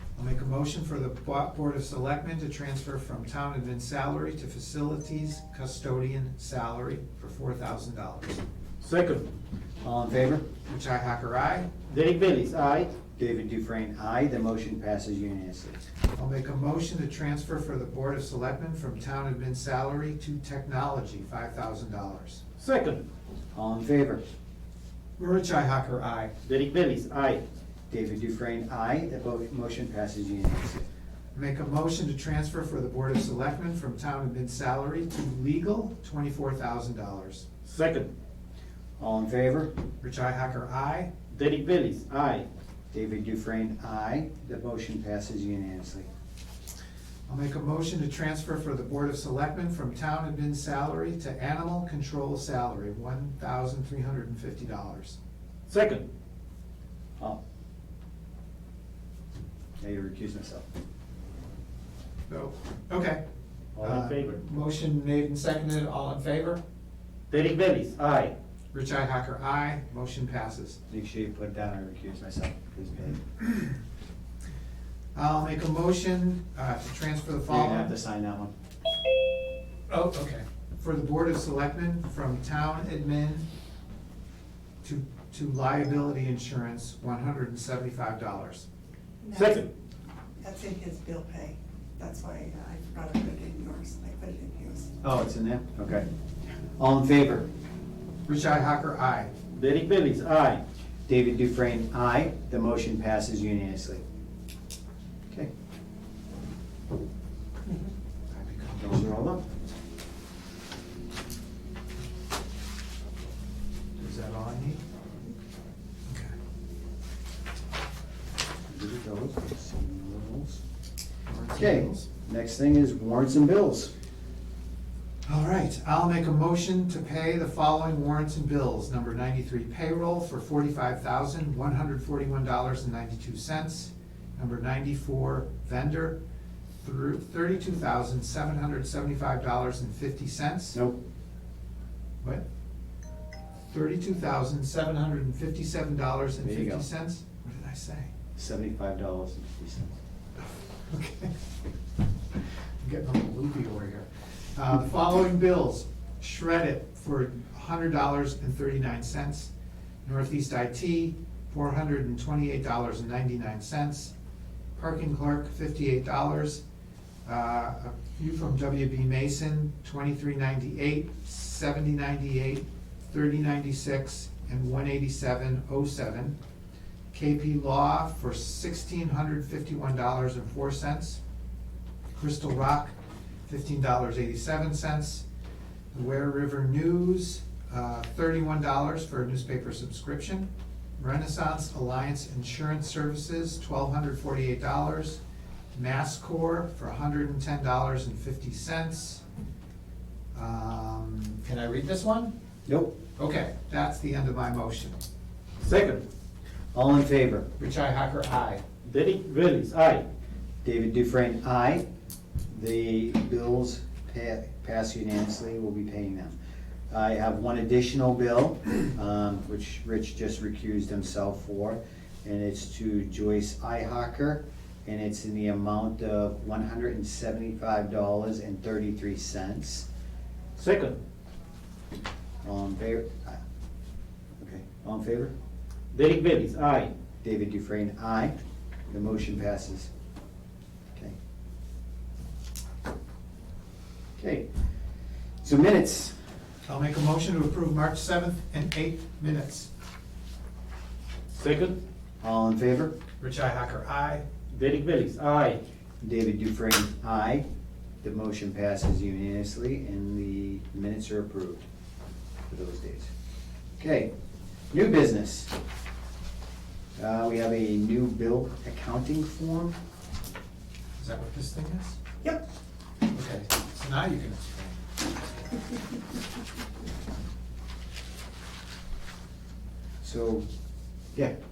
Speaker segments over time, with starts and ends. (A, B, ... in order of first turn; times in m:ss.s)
0:00.2-0:08.4 A
0:08.8-0:09.2 B
0:09.8-0:10.5 C
0:10.7-0:11.8 A
0:11.9-0:12.9 B
0:13.2-0:15.8 C
0:16.2-0:22.4 A
0:22.6-0:23.0 B
0:23.5-0:24.2 C
0:25.2-0:26.3 A
0:26.4-0:27.4 B
0:27.9-0:30.8 C
0:31.4-0:37.5 A
0:37.6-0:38.1 B
0:39.0-0:39.7 C
0:40.0-0:41.1 A
0:41.3-0:42.5 B
0:42.9-0:46.1 C
0:47.3-0:55.2 A
0:55.7-0:56.0 B
0:59.8-1:00.6 C
1:02.3-1:03.2 A
1:03.8-1:04.4 B
1:03.8-1:06.6 A
1:07.3-1:08.3 B
1:08.7-1:10.8 A
1:10.9-1:13.5 C
1:15.2-1:17.9 A
1:17.5-1:18.5 C
1:19.9-1:23.4 A
1:24.8-1:28.6 A
1:29.2-1:29.7 D
1:29.3-1:29.7 B
1:30.4-1:34.9 D
1:35.0-1:36.1 C
1:36.8-1:37.5 C
1:38.3-1:39.3 A
1:39.5-1:40.6 B
1:41.1-1:44.0 C
1:48.3-1:49.0 A
1:48.8-1:49.4 C
1:54.0-1:54.8 A
1:56.1-1:56.3 A
1:58.7-2:00.6 C
2:01.3-2:02.1 A
2:01.5-2:03.9 C
2:05.3-2:16.2 A
2:16.8-2:20.8 A
2:23.7-2:28.1 A
2:26.4-2:26.9 C
2:28.4-2:30.0 C
2:30.9-2:31.3 A
2:32.8-2:39.5 A
2:40.0-2:44.1 A
2:44.8-2:46.6 A
2:47.3-2:56.4 A
2:57.1-3:01.2 A
3:02.2-3:03.0 A
3:03.5-3:05.2 A
3:05.9-3:10.5 A
3:11.0-3:15.2 A
3:15.7-3:19.2 A
3:20.3-3:22.3 A
3:22.7-3:23.0 C
3:23.2-3:25.0 A
3:25.6-3:26.0 B
3:26.7-3:27.5 C
3:27.6-3:28.6 A
3:28.8-3:30.0 B
3:30.6-3:31.8 C
3:32.5-3:36.4 C
3:36.9-3:49.9 C
3:50.6-3:51.0 B
3:52.4-3:53.4 C
3:54.4-3:55.3 C
3:55.9-3:56.9 B
3:57.2-3:58.4 C
3:58.9-3:59.9 C
4:04.2-4:04.5 C
4:05.4-4:06.2 C
4:06.7-4:09.7 A
4:11.3-4:11.8 B
4:12.2-4:12.9 C
4:13.2-4:14.2 A
4:14.5-4:15.6 B
4:16.0-4:17.4 C
4:18.0-4:21.7 C
4:22.5-4:23.1 C
4:23.8-4:24.1 C
4:24.7-4:25.5 C
4:27.0-4:29.7 C
4:31.0-4:32.0 A
4:33.1-4:34.8 A
4:40.0-4:40.5 C